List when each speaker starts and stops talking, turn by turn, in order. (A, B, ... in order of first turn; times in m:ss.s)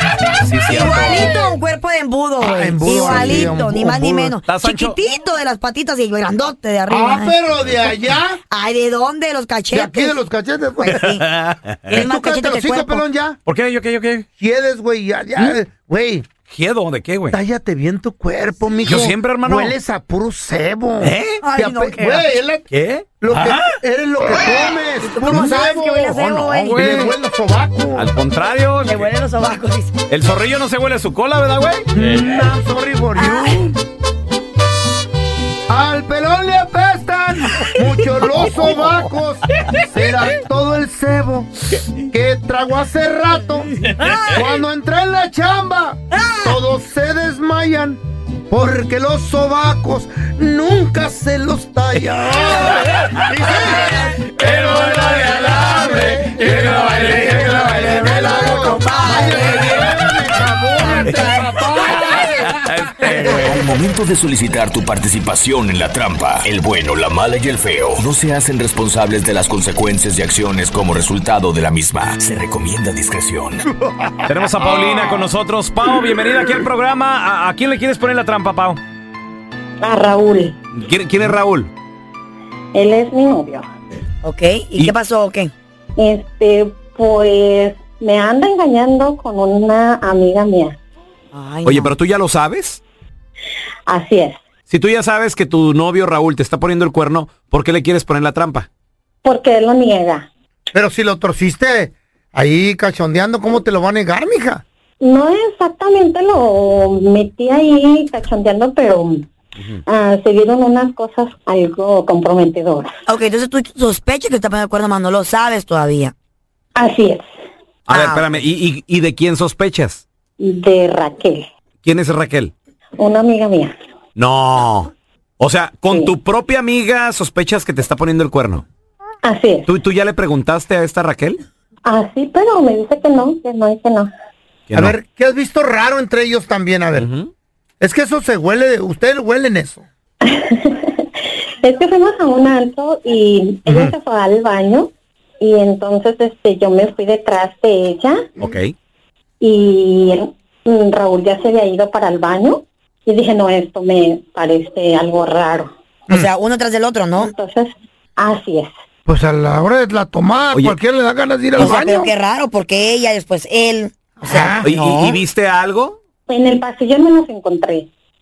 0:00.4-0:01.3 A
0:00.7-0:07.4 B
0:02.4-0:04.4 C
0:03.0-0:03.4 A
0:04.5-0:05.0 A
0:06.9-0:08.4 C
0:08.5-0:10.2 B
0:09.7-0:11.2 C
0:10.8-0:11.2 B
0:11.0-0:11.8 A
0:11.9-0:13.0 B
0:11.9-0:13.4 C
0:13.5-0:14.3 A
0:14.4-0:16.3 C
0:16.5-0:17.4 A
0:17.3-0:22.7 C
0:18.9-0:19.7 A
0:21.0-0:21.4 A
0:21.4-0:22.3 B
0:22.7-0:23.7 A
0:23.2-0:28.1 C
0:25.0-0:26.9 B
0:26.6-0:27.1 A
0:28.0-0:29.1 A
0:28.8-0:29.9 B
0:30.1-0:32.0 A
0:31.9-0:33.8 C
0:33.2-0:33.6 B
0:35.7-0:41.5 C
0:42.1-0:43.7 C
0:44.0-0:44.4 B
0:44.3-1:02.4 C
0:46.1-0:46.6 B
0:53.6-0:54.0 B
0:54.4-0:57.9 A
0:57.6-0:59.9 B
1:00.8-1:02.3 B
1:02.0-1:03.6 A
1:03.3-1:13.7 D
1:13.8-1:15.2 C
1:14.3-1:18.8 A
1:19.8-1:20.6 E
1:20.7-1:21.7 A
1:22.7-1:23.7 E
1:24.2-1:25.5 B
1:26.0-1:30.8 E
1:31.3-1:31.9 B
1:31.6-1:32.8 A
1:33.9-1:34.4 E
1:34.7-1:38.7 A
1:39.2-1:40.3 E
1:40.7-1:44.6 C
1:45.0-1:49.3 E
1:49.9-1:52.9 E
1:53.1-1:56.1 B
1:56.8-1:57.3 E
1:57.9-2:00.0 A
1:57.9-1:58.3 B
2:00.4-2:01.5 E
2:01.8-2:02.5 A
2:03.0-2:03.8 E
2:04.2-2:08.6 A
2:09.2-2:09.7 E
2:09.7-2:11.4 A
2:11.8-2:14.1 E
2:14.7-2:15.0 A
2:14.8-2:17.1 C
2:17.0-2:17.3 A
2:17.8-2:19.9 C
2:20.2-2:28.3 E
2:23.7-2:24.0 C
2:28.4-2:28.7 A
2:29.4-2:35.7 E
2:36.1-2:37.3 B
2:37.2-2:38.7 E
2:39.1-2:42.1 C
2:41.6-2:45.2 B
2:44.2-2:44.8 C
2:44.6-2:46.0 A
2:46.3-2:47.9 E